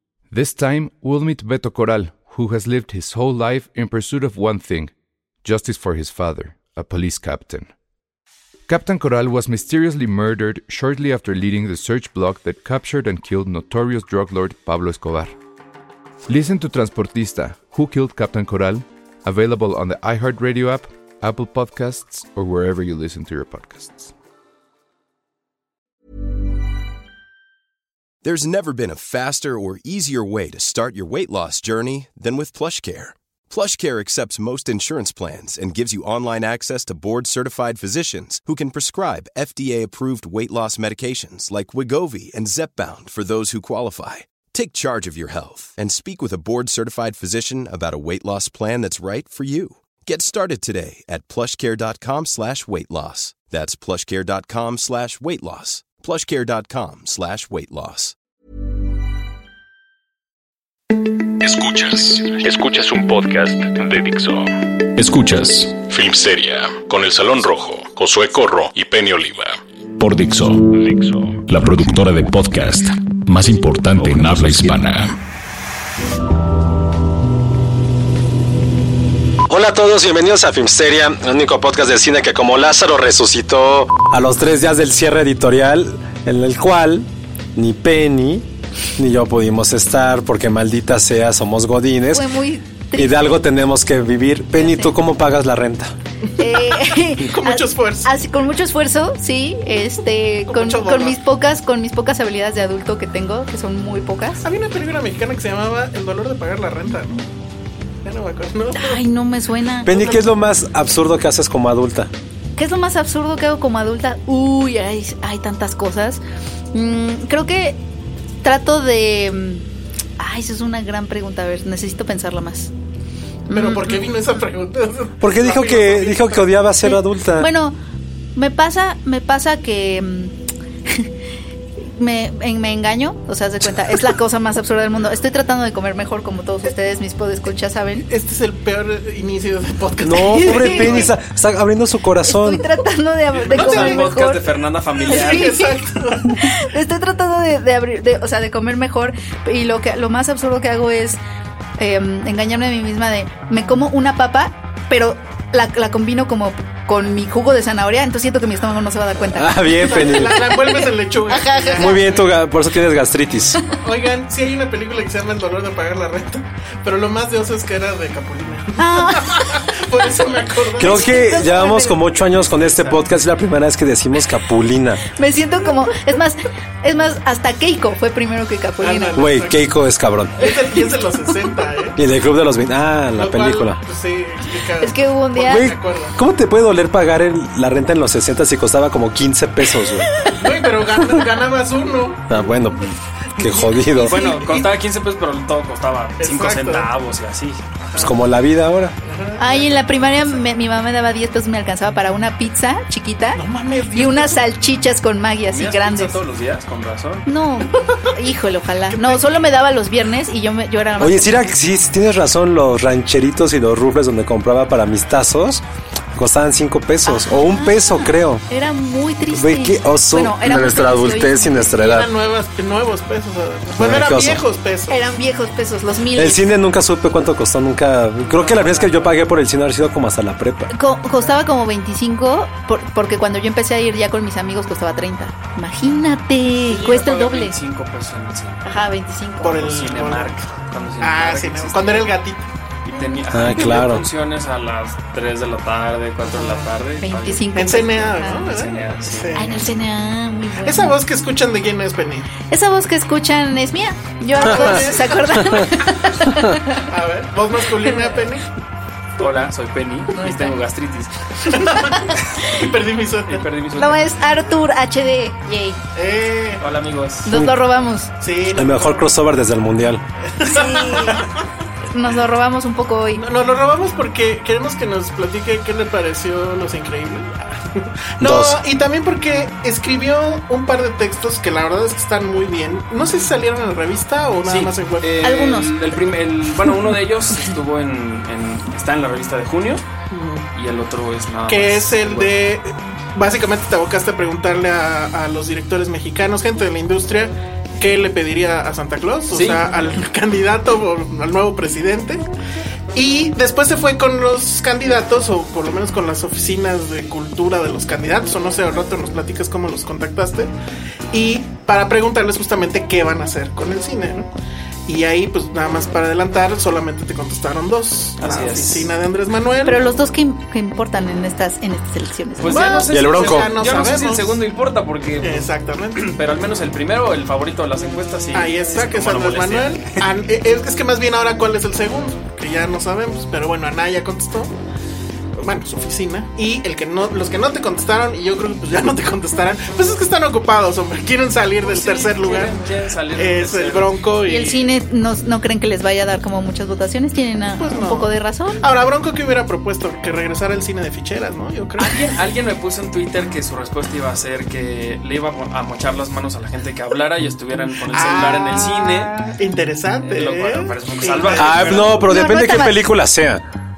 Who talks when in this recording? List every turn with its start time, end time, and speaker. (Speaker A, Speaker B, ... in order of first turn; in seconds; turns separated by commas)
Speaker A: 0.3-4.9, Speaker A: 5.4-7.7, Speaker A: 8.7-15.3, Speaker A: 16.3-24.1, Speaker B: 28.2-58.1, Speaker C: 61.4-75.2, Speaker D: 79.5-92.3, Speaker E: 92.1-93.2, Speaker D: 93.0-96.0, Speaker E: 94.6-95.0, Speaker F: 96.3-98.1, Speaker E: 96.4-104.4, Speaker F: 100.5-101.2, Speaker F: 104.4-107.2, Speaker F: 108.0-109.0, Speaker E: 108.7-110.3, Speaker D: 109.8-112.1, Speaker E: 112.6-116.2, Speaker E: 116.7-117.8, Speaker E: 118.4-119.7, Speaker E: 120.2-122.7, Speaker E: 123.5-124.0, Speaker F: 123.5-126.7, Speaker D: 125.2-127.5, Speaker E: 126.8-127.8, Speaker E: 128.4-130.3, Speaker E: 132.0-138.1, Speaker F: 138.1-141.1, Speaker D: 140.1-142.7, Speaker E: 140.3-141.1, Speaker E: 142.3-144.4, Speaker F: 143.3-144.1, Speaker G: 143.5-145.6, Speaker F: 145.1-146.5, Speaker E: 145.1-145.8, Speaker E: 146.3-151.2, Speaker E: 151.8-162.1, Speaker D: 159.3-160.4, Speaker F: 159.8-162.2, Speaker D: 161.8-163.6, Speaker F: 163.8-171.6, Speaker E: 168.8-169.6, Speaker D: 170.8-175.0, Speaker E: 170.8-172.1, Speaker F: 172.6-172.9, Speaker E: 175.1-179.3, Speaker F: 175.6-175.9, Speaker F: 178.8-179.7, Speaker D: 179.2-180.5, Speaker F: 180.4-182.0, Speaker E: 180.4-180.8, Speaker D: 182.0-183.8, Speaker F: 183.1-186.2, Speaker E: 184.8-185.7, Speaker D: 185.4-190.2, Speaker F: 190.3-192.5, Speaker D: 192.3-194.3, Speaker F: 193.4-194.7, Speaker G: 194.0-197.8, Speaker F: 196.2-196.9, Speaker F: 197.9-198.2, Speaker D: 198.0-199.0, Speaker F: 199.0-200.5, Speaker E: 199.4-203.4, Speaker F: 203.3-204.5, Speaker E: 203.9-206.2, Speaker G: 205.5-207.3, Speaker E: 207.3-211.4, Speaker F: 207.8-208.1, Speaker F: 208.9-209.2, Speaker D: 211.0-215.6, Speaker D: 216.2-218.4, Speaker E: 217.1-221.7, Speaker D: 219.3-222.1, Speaker F: 221.8-225.0, Speaker D: 223.8-224.4, Speaker E: 224.9-226.4, Speaker D: 226.2-230.7, Speaker G: 228.2-229.2, Speaker E: 230.7-237.6, Speaker G: 236.7-238.6, Speaker E: 238.7-239.6, Speaker F: 239.4-240.4, Speaker G: 239.6-242.1, Speaker F: 241.0-243.8, Speaker G: 242.9-247.5, Speaker D: 243.3-244.1, Speaker F: 246.3-246.7, Speaker E: 247.0-248.5, Speaker F: 247.6-249.7, Speaker G: 248.3-249.4, Speaker E: 249.3-251.0, Speaker F: 250.6-252.4, Speaker E: 252.5-256.9, Speaker F: 254.4-255.6, Speaker F: 256.9-258.5, Speaker G: 259.2-261.1, Speaker E: 260.1-260.6, Speaker F: 261.5-263.4, Speaker G: 263.3-264.0, Speaker E: 263.8-265.8, Speaker F: 265.9-266.6, Speaker G: 266.6-267.3, Speaker E: 267.3-268.1, Speaker D: 267.3-267.6, Speaker F: 268.2-269.1, Speaker D: 268.5-270.0, Speaker F: 270.2-271.4, Speaker E: 270.4-271.2, Speaker E: 271.9-273.2, Speaker F: 273.1-285.2, Speaker D: 278.2-278.6, Speaker G: 284.5-289.8, Speaker E: 285.2-285.7, Speaker F: 290.1-290.5, Speaker G: 290.6-292.4, Speaker F: 291.5-302.2, Speaker G: 299.3-299.7, Speaker F: 302.9-310.5, Speaker F: 311.1-314.3, Speaker F: 314.9-319.9, Speaker G: 318.2-318.9, Speaker E: 319.6-322.8, Speaker G: 322.4-330.0, Speaker F: 322.5-324.4, Speaker D: 322.9-323.5, Speaker F: 325.2-326.1, Speaker F: 328.3-334.5, Speaker F: 335.4-342.6, Speaker G: 341.6-344.0, Speaker F: 343.1-344.7, Speaker E: 344.2-348.6, Speaker F: 347.6-352.0, Speaker G: 351.8-359.1, Speaker F: 357.9-362.0, Speaker G: 360.0-362.0, Speaker D: 361.4-363.4, Speaker E: 362.0-362.8